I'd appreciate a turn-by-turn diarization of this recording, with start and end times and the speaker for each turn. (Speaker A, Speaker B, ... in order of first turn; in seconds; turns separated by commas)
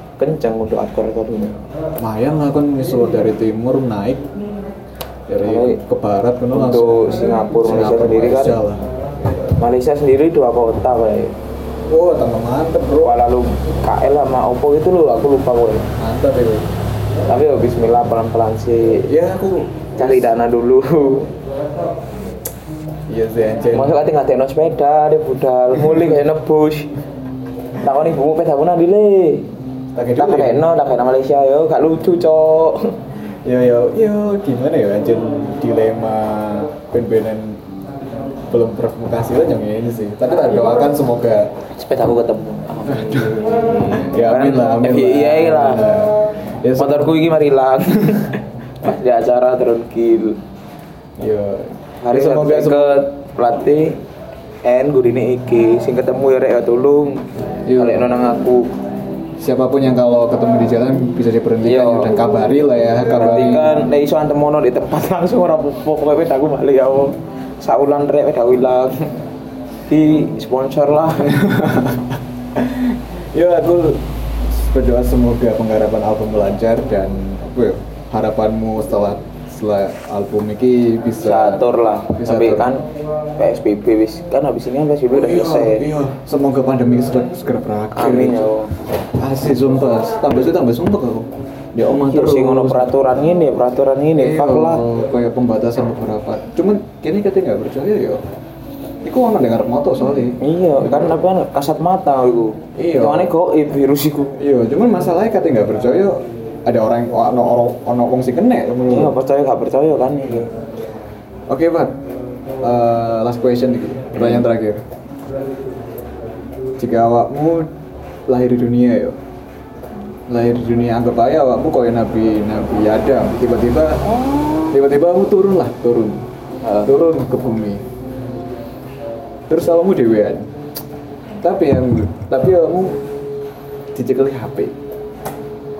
Speaker A: 0.2-1.6, Speaker B: 2.0-4.3, Speaker B: 5.3-8.8, Speaker A: 5.4-5.8, Speaker A: 6.5-8.6, Speaker A: 9.6-11.3, Speaker B: 11.9-13.2, Speaker A: 13.0-15.9, Speaker B: 15.9-16.7, Speaker A: 17.3-19.1, Speaker B: 19.1-20.3, Speaker A: 20.0-21.3, Speaker B: 23.1-24.0, Speaker A: 23.7-26.9, Speaker A: 27.8-29.5, Speaker B: 29.9-30.7, Speaker A: 30.2-33.0, Speaker B: 33.4-37.6, Speaker B: 38.5-41.5, Speaker A: 41.7-45.9, Speaker B: 42.8-47.2, Speaker A: 46.8-50.4, Speaker B: 51.2-53.0, Speaker A: 52.0-54.0, Speaker A: 54.6-58.7, Speaker B: 57.6-58.1, Speaker B: 59.4-63.8, Speaker A: 61.6-62.1, Speaker A: 63.1-69.1, Speaker A: 69.9-71.4, Speaker B: 71.2-82.7, Speaker A: 81.2-85.8, Speaker B: 85.1-88.4, Speaker A: 87.9-88.7, Speaker B: 89.2-92.9, Speaker A: 92.0-94.8, Speaker B: 94.2-98.2, Speaker B: 99.0-101.0, Speaker A: 100.4-104.3, Speaker B: 102.8-103.3, Speaker B: 104.4-109.1, Speaker A: 108.9-110.5, Speaker B: 111.5-112.0, Speaker B: 112.6-114.8, Speaker A: 114.2-114.5, Speaker B: 116.8-117.7, Speaker B: 118.3-119.2, Speaker B: 120.3-126.3, Speaker A: 124.3-124.7, Speaker A: 126.6-126.9, Speaker B: 126.8-127.8, Speaker B: 129.5-130.5, Speaker B: 131.4-133.0, Speaker B: 133.9-134.8